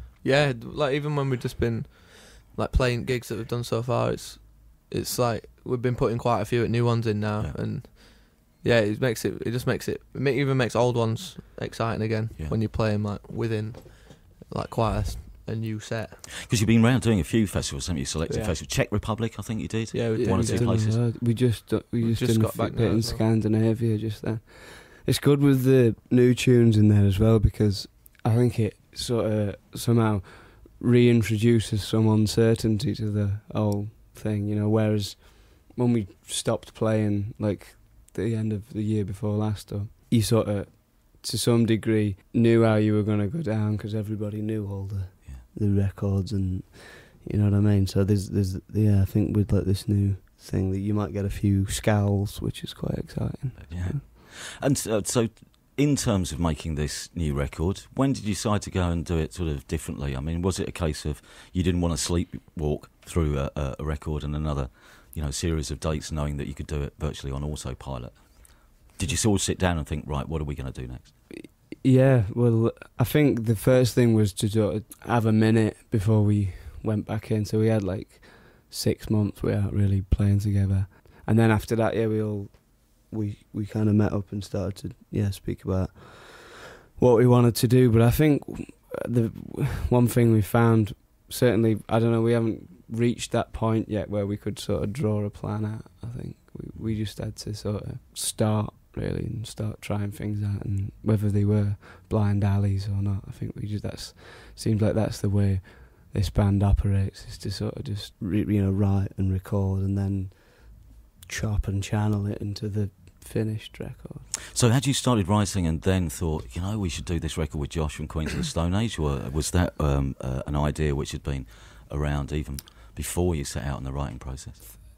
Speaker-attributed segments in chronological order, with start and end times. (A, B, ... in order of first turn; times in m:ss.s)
0:00.2-0:16.2 A
0:16.4-0:21.0 B
0:18.3-0:18.6 A
0:19.9-0:20.8 A
0:20.2-0:54.0 C
0:22.0-0:23.2 A
0:53.6-1:11.2 B
1:11.3-1:54.3 C
1:54.5-2:04.6 B